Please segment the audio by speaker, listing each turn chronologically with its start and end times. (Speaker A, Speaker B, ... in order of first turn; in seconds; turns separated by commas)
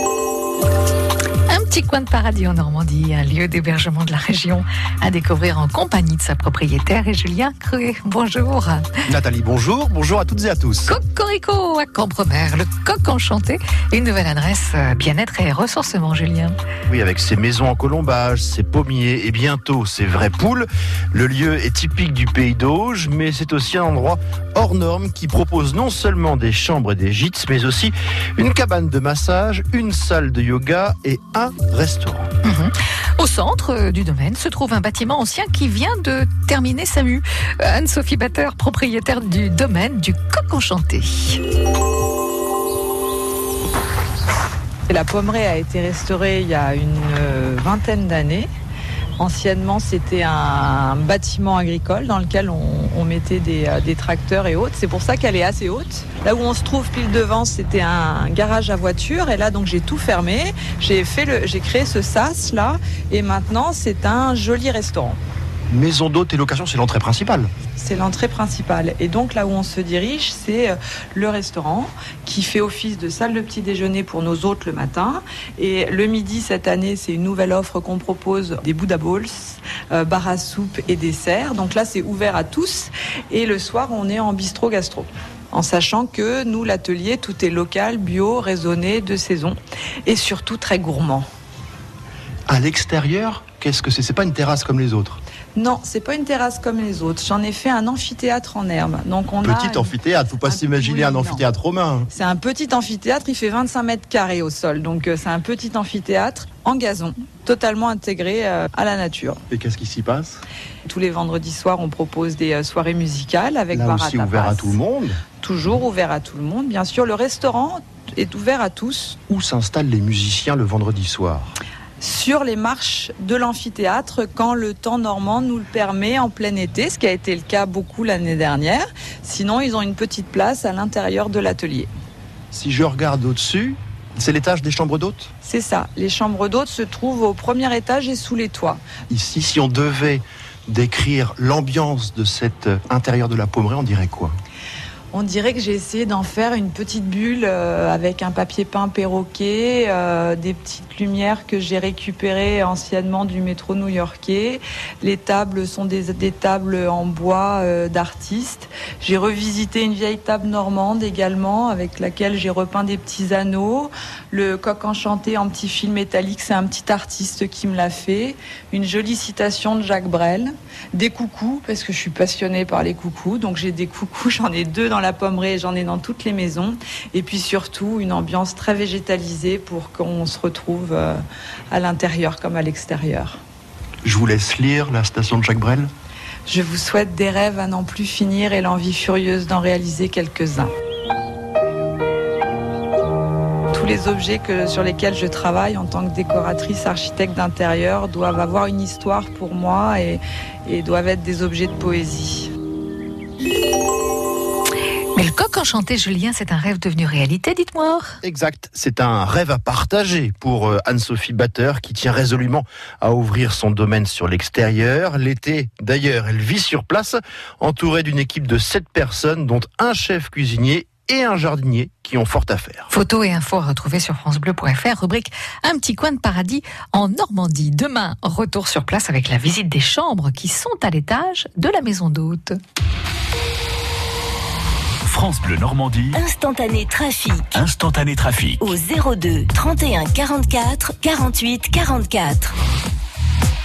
Speaker A: 1.5-8.8, Speaker B: 9.1-10.9, Speaker A: 10.8-16.5, Speaker B: 16.9-32.3, Speaker A: 32.4-41.4, Speaker C: 44.9-48.5, Speaker C: 49.2-65.2, Speaker B: 65.7-67.5, Speaker C: 67.8-91.3, Speaker B: 92.5-95.2, Speaker C: 95.5-101.4, Speaker B: 99.4-102.1, Speaker C: 102.1-109.4, Speaker B: 109.5-110.4, Speaker C: 110.8-114.8, Speaker B: 113.7-115.2, Speaker C: 115.4-119.2, Speaker B: 119.3-121.5, Speaker C: 122.0-131.9, Speaker B: 132.5-135.3, Speaker C: 135.4-138.8, Speaker B: 139.1-144.3, Speaker C: 145.1-183.4, Speaker B: 184.0-185.9, Speaker C: 186.4-190.7, Speaker C: 193.7-202.5, Speaker A: 205.1-208.1, Speaker B: 208.2-222.9, Speaker A: 222.9-232.6, Speaker D: 235.0-236.2, Speaker E: 236.2-237.5, Speaker D: 237.5-238.7, Speaker E: 238.6-242.5